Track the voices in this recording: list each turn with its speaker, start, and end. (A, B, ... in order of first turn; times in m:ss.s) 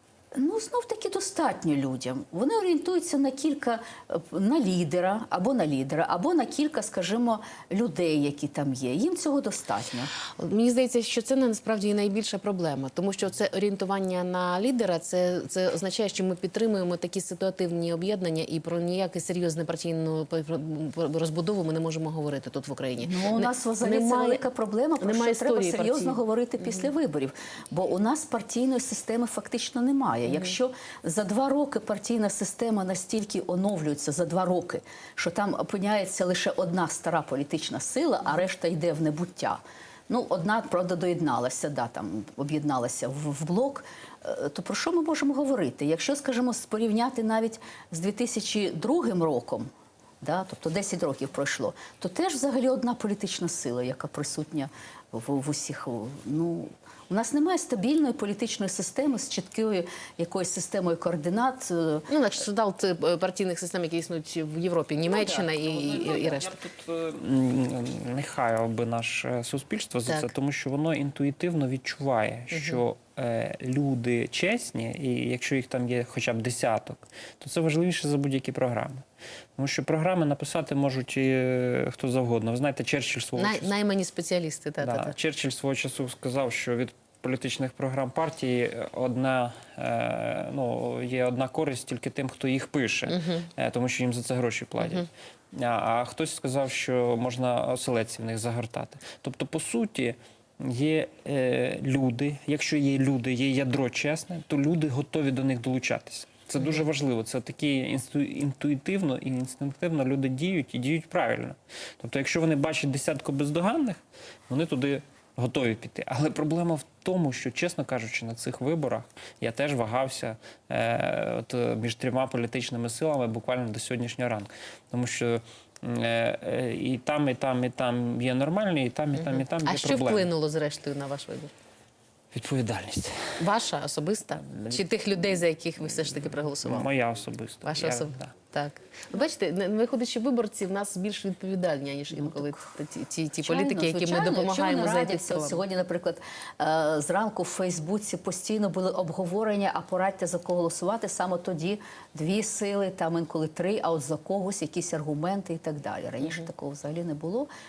0:00.3-0:10.1 A
0:10.4-0:24.4 B
0:23.0-0:49.7 A
0:25.0-0:26.2 B
0:30.3-0:30.5 B
0:50.2-1:02.1 A
1:02.1-1:06.5 B
1:05.1-1:19.0 C
1:12.5-1:12.8 B
1:19.6-1:23.7 C
1:23.4-1:25.1 B
1:24.8-2:10.3 C
1:33.1-1:33.5 B
1:34.8-1:35.1 B
2:09.1-2:11.5 B
2:12.3-2:13.4 C
2:13.4-2:16.9 B
2:14.4-2:14.8 C
2:16.2-2:18.3 C
2:17.6-2:25.6 B
2:22.1-2:22.6 A
2:23.4-2:37.5 A